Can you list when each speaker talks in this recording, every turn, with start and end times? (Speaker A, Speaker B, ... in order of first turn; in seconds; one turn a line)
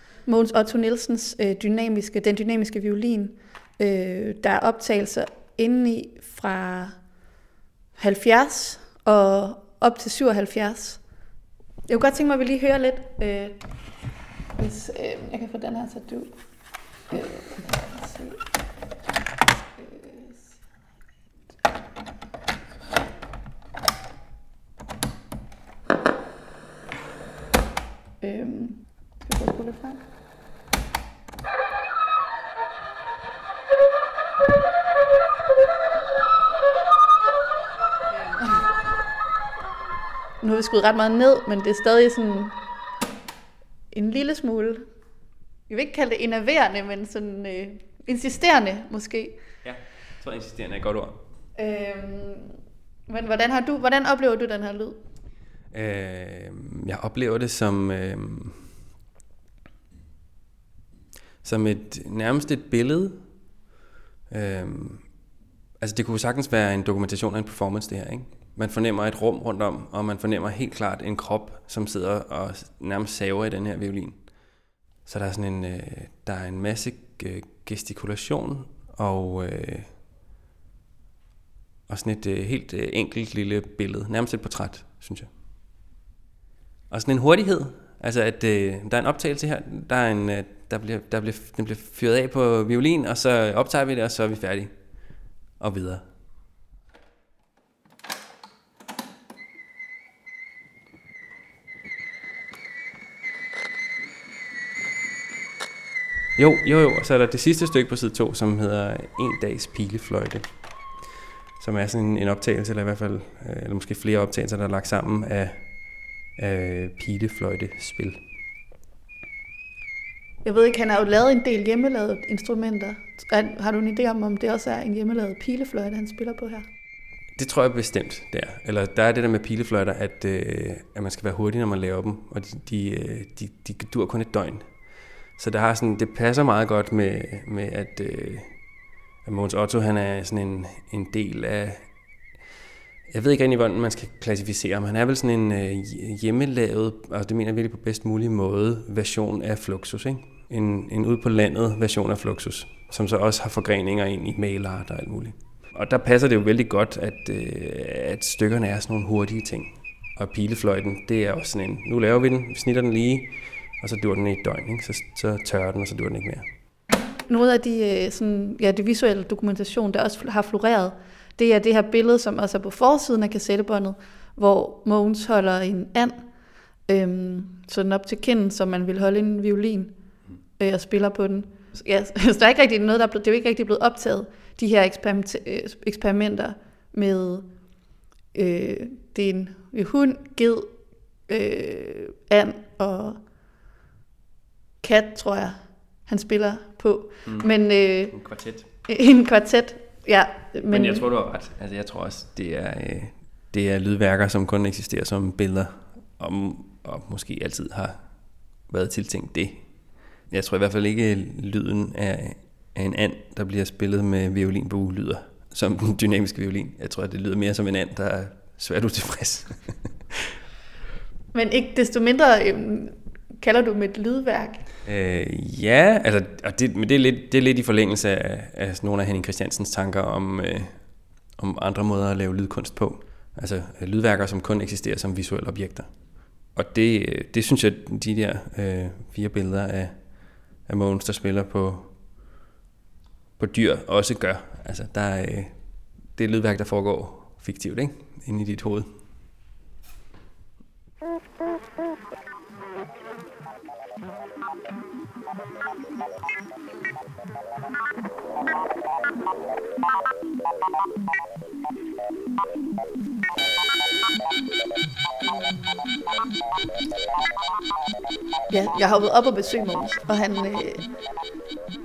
Speaker A: 0.2-7.0
Speaker A: 8.0-11.0
Speaker A: 11.9-13.6
Speaker A: 14.6-16.3
Speaker A: 17.1-18.4
Speaker A: 19.8-20.6
Speaker A: 28.2-30.0
Speaker A: 40.4-42.6
Speaker A: 43.9-44.9
Speaker A: 45.7-49.4
Speaker B: 49.6-51.2
Speaker A: 51.5-52.5
Speaker A: 53.1-55.0
Speaker B: 55.7-58.8
Speaker B: 61.4-63.2
Speaker B: 64.3-65.1
Speaker B: 65.8-80.0
Speaker B: 81.9-85.3
Speaker B: 86.9-96.0
Speaker B: 106.3-110.5
Speaker B: 111.6-118.2
Speaker A: 120.4-126.7
Speaker B: 127.3-134.8
Speaker B: 135.3-138.6
Speaker B: 139.2-142.0
Speaker B: 143.1-166.5
Speaker A: 167.3-176.3
Speaker A: 176.9-179.9
Speaker A: 180.6-187.5
Speaker A: 188.3-190.7
Speaker A: 191.3-193.2
Speaker A: 194.8-198.2
Speaker B: 197.2-198.7
Speaker A: 198.8-201.1
Speaker B: 200.7-220.3
Speaker A: 221.3-224.6
Speaker B: 224.8-242.2
Speaker B: 243.4-249.0
Speaker A: 268.5-270.9